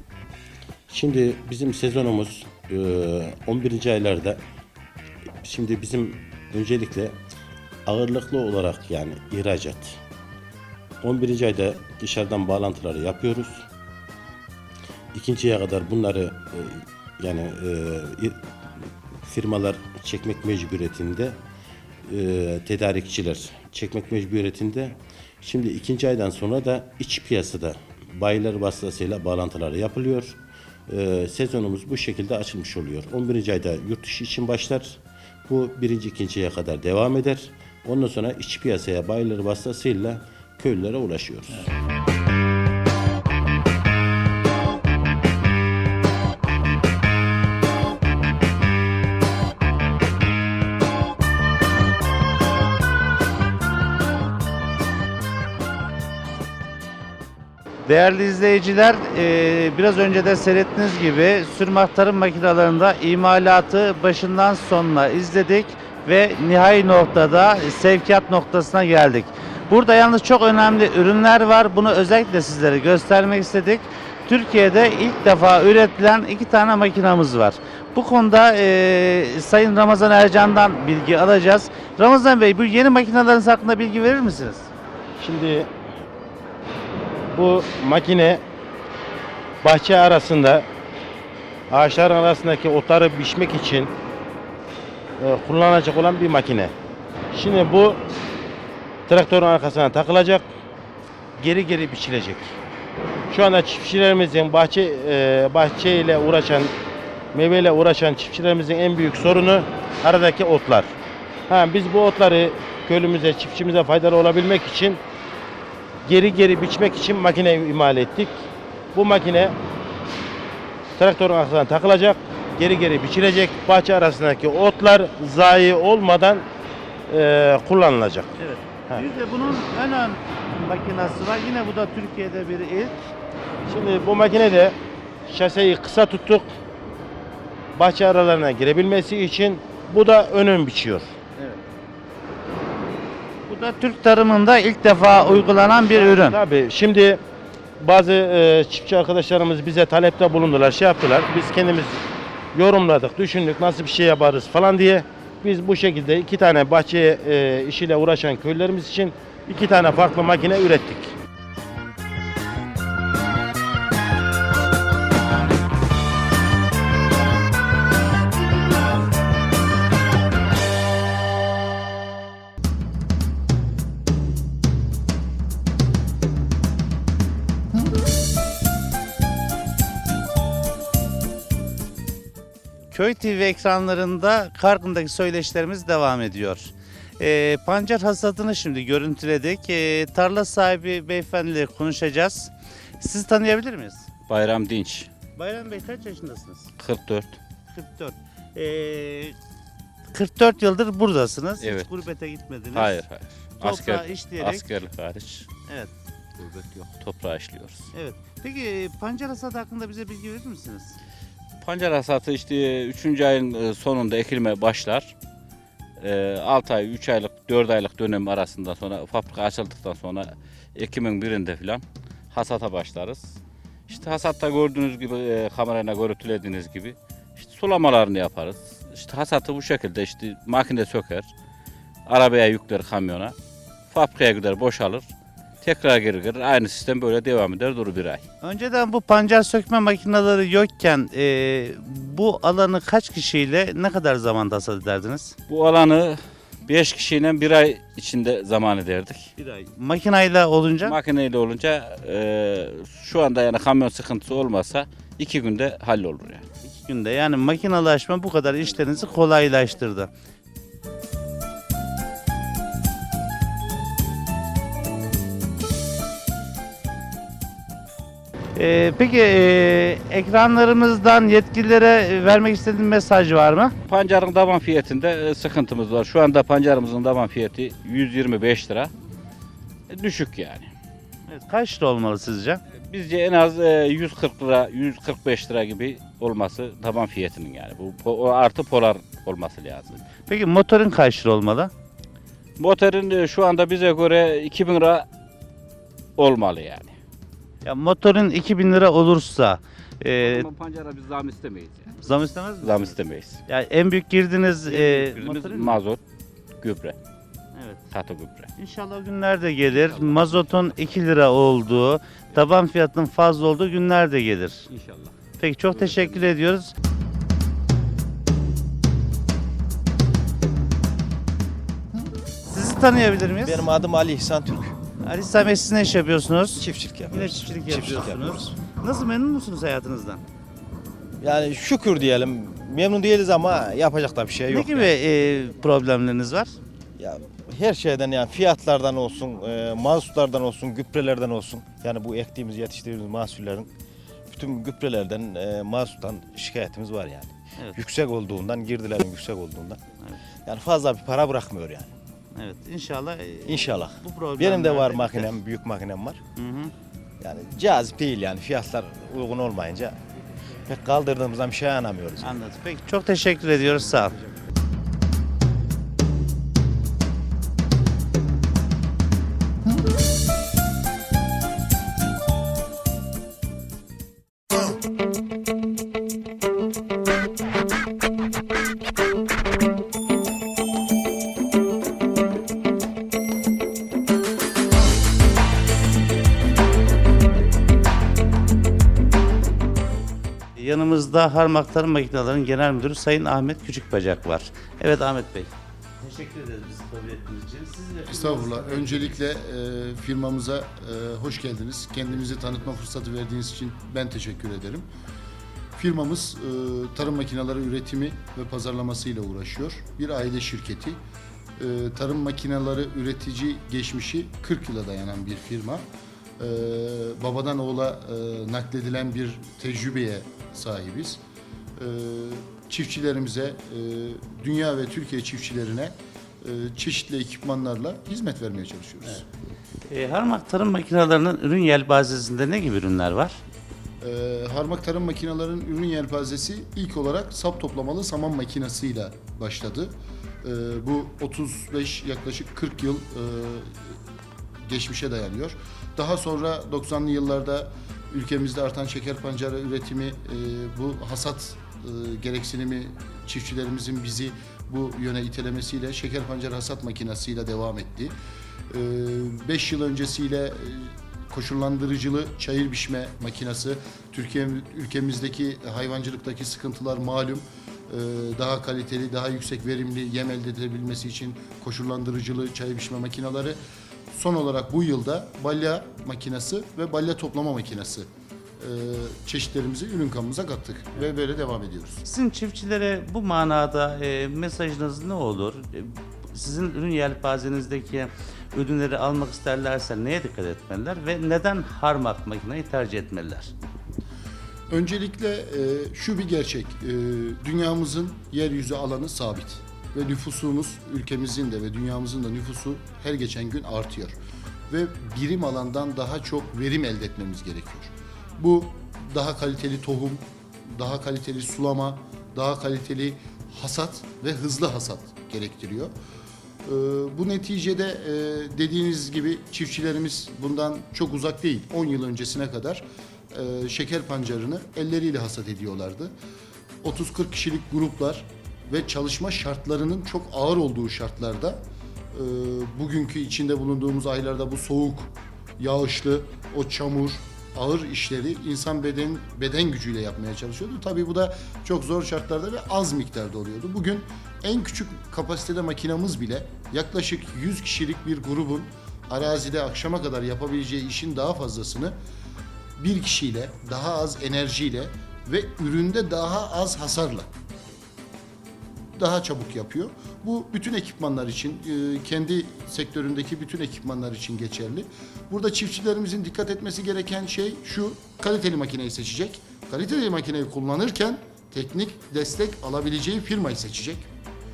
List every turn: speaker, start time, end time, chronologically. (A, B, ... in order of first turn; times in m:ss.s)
0:00.9-0:04.4 A
0:05.4-0:07.2 A
0:07.9-0:10.0 A
0:11.0-0:13.6 A
0:15.1-0:21.4 A
0:22.1-0:41.7 A
0:57.8-1:24.7 B
1:25.2-1:25.7 C
1:27.3-1:28.4 C
1:29.6-1:30.6 C
1:31.7-1:33.9 C
1:35.2-1:36.7 C
1:37.3-1:38.0 C
1:39.1-1:40.5 C
1:41.4-1:42.6 C
1:43.3-1:46.7 C
1:47.3-1:50.9 C
1:51.5-1:55.0 C
1:56.0-1:59.6 C
2:01.0-2:06.5 C
2:07.1-2:08.3 C
2:08.4-2:13.1 B
2:13.6-2:14.8 C
2:15.3-2:16.5 C
2:17.8-2:21.1 C
2:23.5-2:26.4 B
2:25.9-2:27.2 C
2:27.8-2:32.0 C
2:32.5-2:41.1 C
3:02.9-3:14.1 B
3:14.3-3:15.1 D
3:15.4-3:16.7 B
3:16.8-3:17.4 D
3:17.7-3:19.4 B
3:20.1-3:23.0 B
3:21.6-3:21.9 D
3:22.7-3:25.5 D
3:23.6-3:24.7 B
3:25.7-3:25.9 B
3:26.4-3:27.9 D
3:27.9-3:31.0 B
3:31.6-3:35.1 D
3:36.0-3:51.3 D
3:52.1-3:53.4 D
3:53.9-3:55.1 D
3:55.6-3:58.2 D
3:58.4-4:05.4 B
4:05.5-4:09.3 D
4:09.4-4:11.0 B
4:10.8-4:16.4 D
4:16.6-4:20.1 B
4:28.6-4:33.7 B
4:33.9-4:38.9 D
4:39.9-4:40.7 D
4:41.3-4:42.6 B
4:42.8-4:50.1 D
4:50.3-4:51.7 B
4:52.6-4:55.1 D
4:56.2-4:57.0 D
4:57.6-5:00.5 B
5:00.2-5:01.9 D
5:02.0-5:03.0 B
5:02.6-5:03.4 D
5:03.5-5:05.8 B
5:04.7-5:06.0 D
5:06.6-5:07.0 D
5:07.6-5:07.8 B
5:07.9-5:08.5 D
5:08.6-5:14.7 B
5:09.8-5:10.4 D
5:14.7-5:15.1 D
5:15.4-5:16.7 B
5:22.5-5:23.7 B
5:23.5-5:24.8 E
5:25.0-5:30.2 B
5:26.6-5:28.4 E
5:31.2-5:34.9 E
5:34.5-5:36.5 B
5:37.0-5:43.7 E
5:44.3-5:49.8 E
5:50.5-5:51.9 E
5:52.4-5:55.3 B
5:53.5-5:56.2 E
5:56.4-5:56.7 B
5:57.2-6:00.0 E
6:00.7-6:02.4 E
6:02.2-6:04.1 B
6:30.6-6:39.2 B
6:38.1-6:44.9 F
6:45.8-6:51.0 F
6:51.6-6:55.8 F
6:56.4-7:01.2 F
7:01.8-7:09.2 F
7:09.9-7:13.4 B
7:14.0-7:23.7 F
7:24.7-7:38.1 F
7:38.7-7:53.6 F
7:54.1-7:58.1 F
7:58.6-8:02.0 F
8:02.1-8:13.5 B
8:14.7-8:24.1 F
8:24.7-8:35.9 F
8:36.6-8:46.1 F
8:46.8-8:51.6 F
8:52.1-9:12.0 F
9:12.8-9:17.3 F
9:19.0-9:34.1 F